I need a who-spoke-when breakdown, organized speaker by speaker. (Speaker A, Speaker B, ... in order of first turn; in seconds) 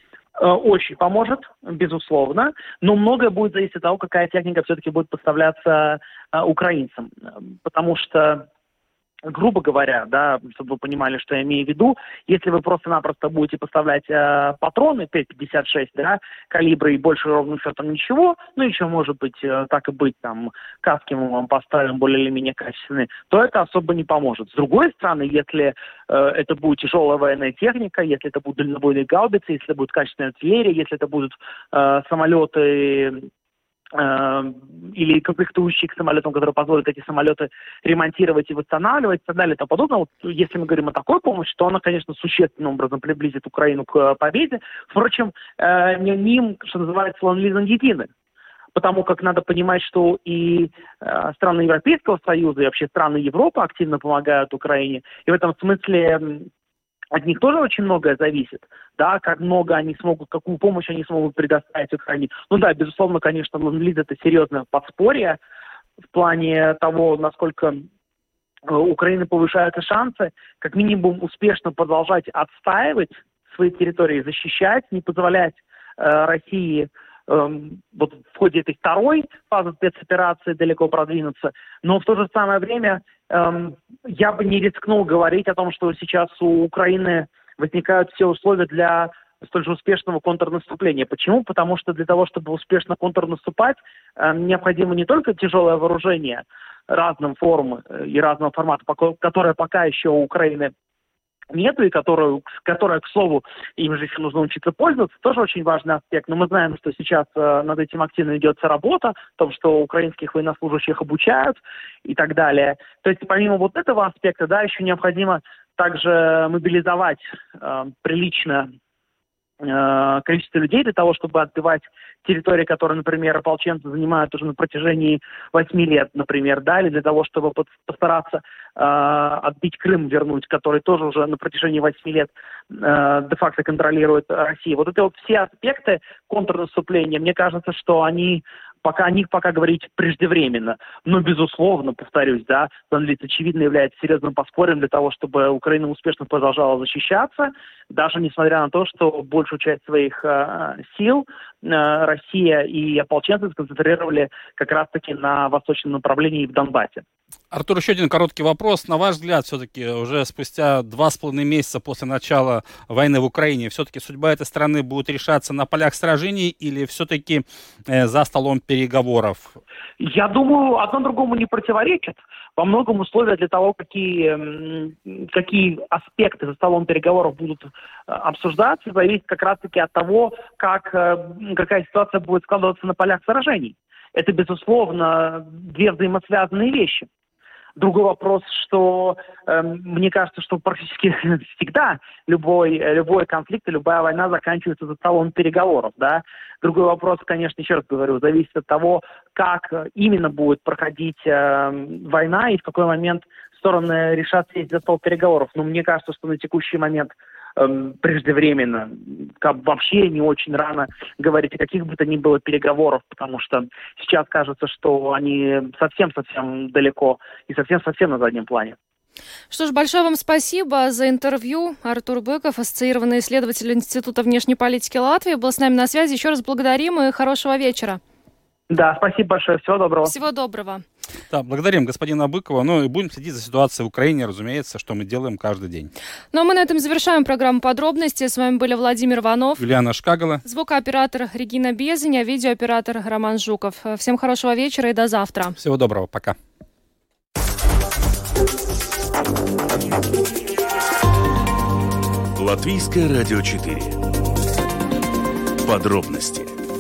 Speaker A: 0.4-7.1, 7.6-8.5, 9.3-33.3, 33.9-48.1, 48.8-56.5, 57.1-65.4, 66.1-67.9, 68.7-100.7, 101.5-118.7, 119.6-157.1, 170.0-187.1, 187.8-218.8, 228.7-230.1
Speaker B: 157.5-169.6, 231.3-235.9, 239.6-240.4, 245.6-246.4
Speaker C: 219.5-228.0, 230.0-230.8, 236.3-239.6, 240.4-245.6
Speaker D: 252.4-254.0, 255.6-256.6